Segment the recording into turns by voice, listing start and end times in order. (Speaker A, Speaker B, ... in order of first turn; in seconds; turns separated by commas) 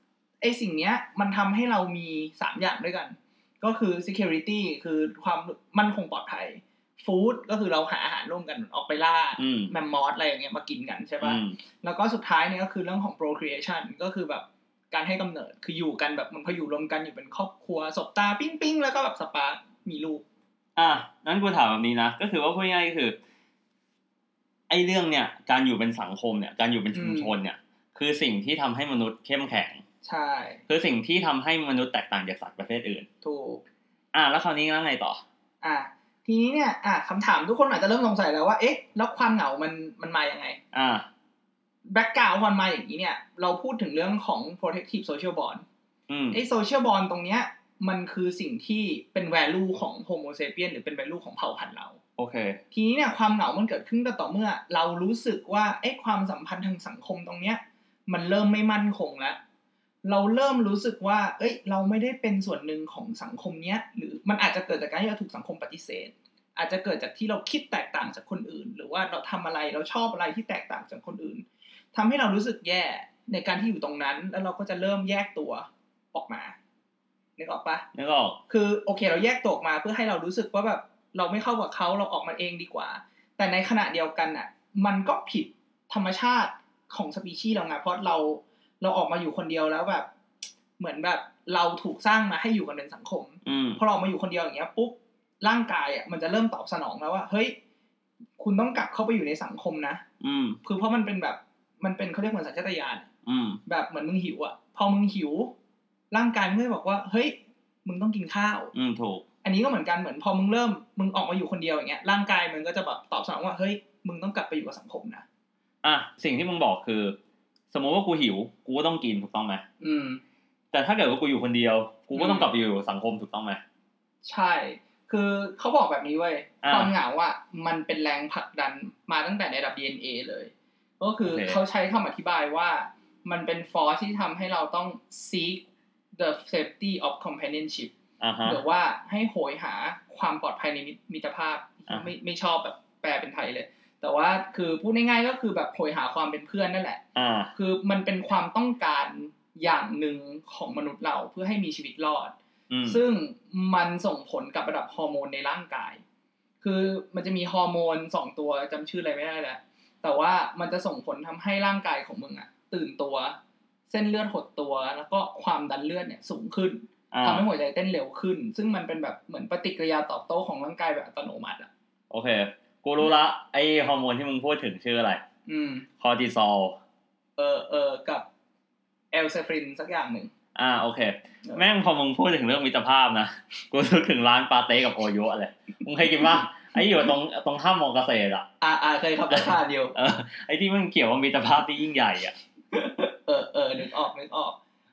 Speaker A: 0.4-20.2, Speaker B: 9.4-9.7, Speaker B: 11.2-11.6, Speaker B: 20.8-23.2, Speaker B: 24.7-29.8, Speaker A: 26.9-27.3, Speaker A: 30.0-30.6, Speaker B: 30.7-33.1, Speaker A: 33.2-33.6, Speaker B: 34.1-35.2, Speaker A: 35.6-40.6, Speaker B: 40.7-41.1, Speaker A: 41.9-45.6, Speaker B: 46.1-46.4, Speaker A: 46.3-52.0, Speaker B: 52.2-52.6, Speaker A: 52.7-59.4, Speaker A: 60.0-76.6, Speaker A: 77.4-77.9, Speaker B: 77.9-78.4, Speaker A: 78.5-90.1, Speaker A: 90.8-97.6, Speaker B: 93.4-93.8, Speaker A: 98.4-100.0, Speaker B: 100.2-100.6, Speaker A: 100.6-103.1, Speaker B: 103.2-103.6, Speaker A: 103.7-105.5, Speaker A: 106.1-108.7, Speaker B: 108.7-109.2, Speaker A: 109.4-115.2, Speaker B: 115.8-117.2, Speaker B: 117.7-119.6, Speaker A: 119.8-120.2, Speaker B: 120.7-123.6, Speaker A: 122.1-122.5, Speaker A: 124.2-135.7, Speaker B: 126.6-126.9, Speaker B: 131.2-131.6, Speaker A: 136.2-137.9, Speaker B: 138.2-138.6, Speaker A: 138.4-147.0, Speaker B: 147.2-147.5, Speaker A: 147.5-152.3, Speaker B: 152.7-153.0, Speaker A: 152.9-156.0, Speaker A: 156.6-163.4, Speaker A: 163.9-171.7, Speaker B: 167.1-167.4, Speaker B: 172.1-175.2, Speaker A: 175.5-175.8, Speaker B: 176.0-176.8, Speaker A: 177.4-178.2, Speaker A: 179.1-180.3, Speaker B: 180.6-188.4, Speaker A: 188.6-189.9, Speaker B: 189.3-192.3, Speaker A: 192.7-194.6